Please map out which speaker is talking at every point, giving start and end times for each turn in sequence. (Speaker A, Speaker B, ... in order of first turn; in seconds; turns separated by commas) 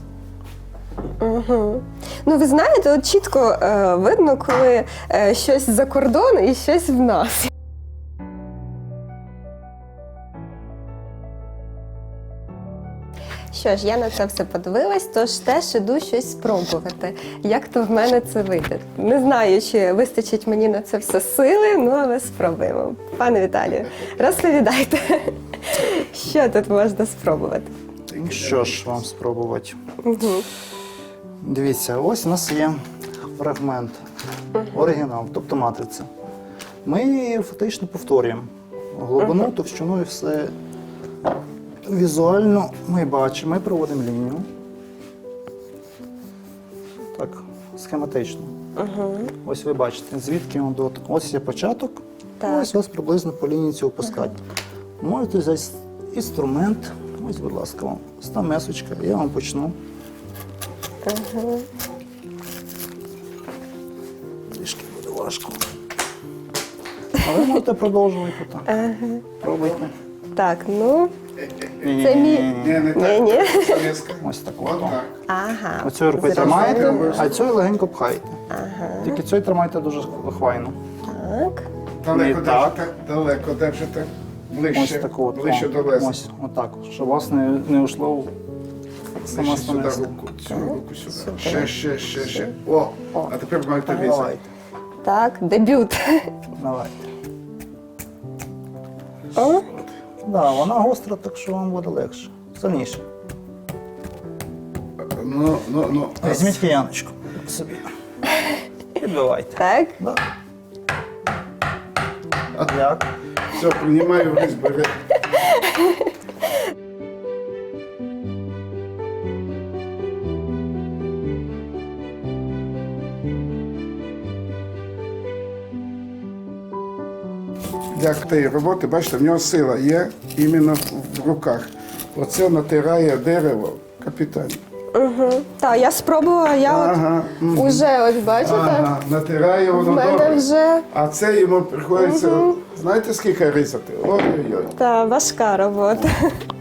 Speaker A: 1.2-7.5, Speaker A: 13.5-27.7, Speaker B: 28.1-29.8, Speaker A: 30.0-30.4, Speaker B: 31.4-32.8, Speaker B: 33.3-34.0, Speaker B: 34.7-36.1, Speaker B: 36.8-40.5, Speaker B: 41.8-44.5, Speaker B: 47.1-48.5, Speaker A: 48.8-49.3, Speaker B: 49.4-54.4, Speaker A: 52.4-52.7, Speaker B: 55.0-59.7, Speaker A: 61.0-61.7, Speaker B: 64.5-65.6, Speaker B: 67.2-68.7, Speaker A: 68.7-69.2, Speaker B: 69.4-69.9, Speaker A: 70.3-71.1, Speaker B: 71.8-72.9, Speaker A: 72.0-73.8, Speaker C: 72.4-75.2, Speaker B: 74.2-75.0, Speaker A: 75.3-77.3, Speaker B: 75.8-78.4, Speaker C: 76.2-77.3, Speaker A: 78.5-79.2, Speaker B: 79.0-80.7, Speaker A: 81.1-81.7, Speaker C: 82.0-86.2, Speaker B: 82.1-82.8, Speaker B: 84.7-88.3, Speaker B: 89.2-90.2, Speaker C: 89.2-94.3, Speaker A: 90.5-91.7, Speaker B: 93.9-94.4, Speaker A: 95.0-96.3, Speaker B: 96.6-97.1, Speaker A: 99.3-99.7, Speaker B: 100.2-103.0, Speaker C: 105.0-106.6, Speaker B: 106.2-107.8, Speaker B: 108.9-110.2, Speaker A: 109.6-110.0, Speaker B: 112.6-113.0, Speaker C: 113.5-114.9, Speaker C: 127.9-134.6, Speaker A: 134.9-138.9, Speaker C: 136.7-137.8, Speaker C: 138.4-144.7, Speaker A: 139.7-140.9, Speaker A: 142.0-142.6, Speaker A: 144.7-146.4